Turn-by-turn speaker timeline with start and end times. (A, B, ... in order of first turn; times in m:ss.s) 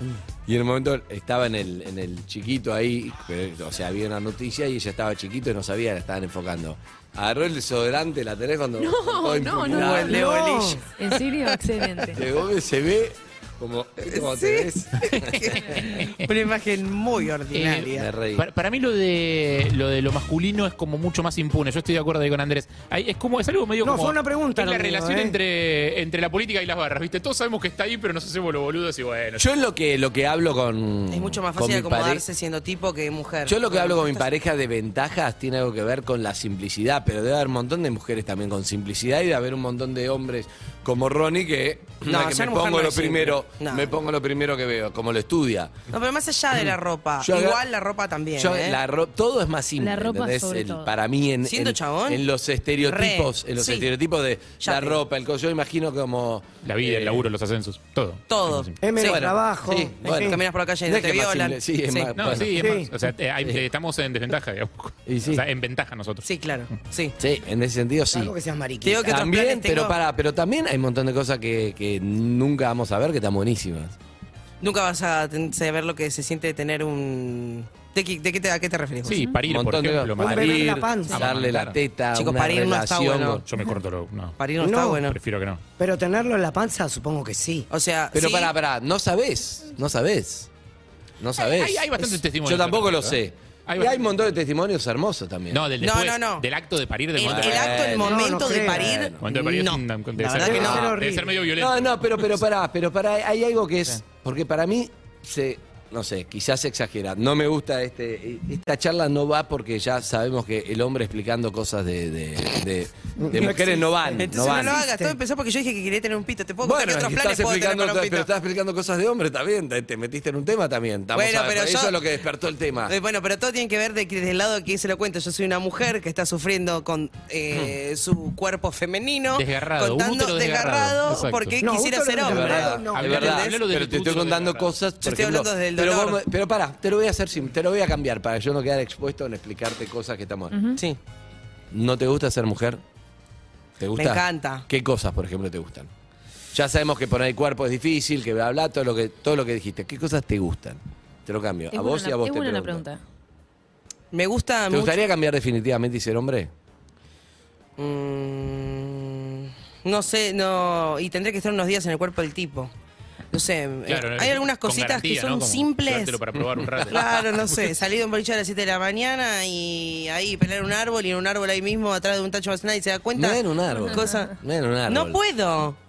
0:00.4-0:10.4 A
0:08.8-0:10.2 B
0:09.7-0:10.8 C
0:10.1-0:10.8 D
0:11.0-0:12.2 B
0:12.1-0:15.6 A
0:14.0-0:18.1 C
0:15.8-0:16.2 E
0:17.5-0:29.5 E
0:17.9-0:18.4 A
0:23.8-0:25.4 D
0:29.4-0:32.2 A
0:31.1-0:34.3 C
0:33.4-0:45.8 A
0:42.0-0:43.9 C
0:45.9-0:48.8 C
0:47.2-0:47.6 A
0:48.4-0:57.2 A
0:49.8-0:50.9 B
0:51.4-0:52.2 C
0:52.8-0:53.9 C
0:54.6-0:55.0 C
0:56.6-0:58.8 E
0:58.3-0:59.3 C
0:58.8-1:00.4 D
0:59.0-1:02.8 A
1:00.0-1:02.3 C
1:02.2-1:06.3 E
1:02.6-1:02.9 D
1:05.1-1:05.4 A
1:06.2-1:07.1 C
1:07.2-1:08.3 A
1:08.1-1:09.2 D
1:08.8-1:10.0 C
1:08.8-1:13.9 A
1:14.6-1:19.2 C
1:19.0-1:21.8 E
1:19.1-1:19.4 B
1:19.5-1:23.4 A
1:20.2-1:21.3 D
1:22.1-1:23.4 C
1:23.4-1:24.4 E
1:24.4-1:25.2 C
1:24.6-1:25.0 D
1:24.9-1:25.6 E
1:25.8-1:27.7 D
1:27.7-1:28.5 C
1:28.1-1:30.5 A
1:31.2-1:35.6 A
1:31.4-1:34.2 E
1:35.5-1:38.0 E
1:35.8-1:36.4 C
1:37.2-1:40.9 C
1:37.2-1:39.2 A
1:38.0-1:38.9 D
1:39.2-1:42.4 E
1:40.4-1:41.4 D
1:41.6-1:54.8 A
1:53.2-1:55.2 D
1:54.2-1:58.3 C
1:56.6-2:02.9 A
2:01.1-2:02.0 C
2:02.9-2:13.6 C
2:09.3-2:11.6 E
2:11.6-2:13.3 D
2:12.2-2:20.6 A
2:12.9-2:14.7 E
2:15.0-2:16.2 C
2:20.5-2:20.8 B
2:21.7-2:22.8 A
2:23.8-2:25.9 A
2:24.0-2:24.6 C
2:26.5-2:32.8 A
2:31.7-2:33.0 B
2:34.1-2:35.0 C
2:34.7-2:36.5 A
2:37.8-2:42.7 C
2:43.3-2:46.2 C
2:43.9-2:47.8 E
2:46.9-2:54.4 C
2:53.1-2:55.2 A
2:53.8-2:54.0 B
2:54.9-2:55.8 C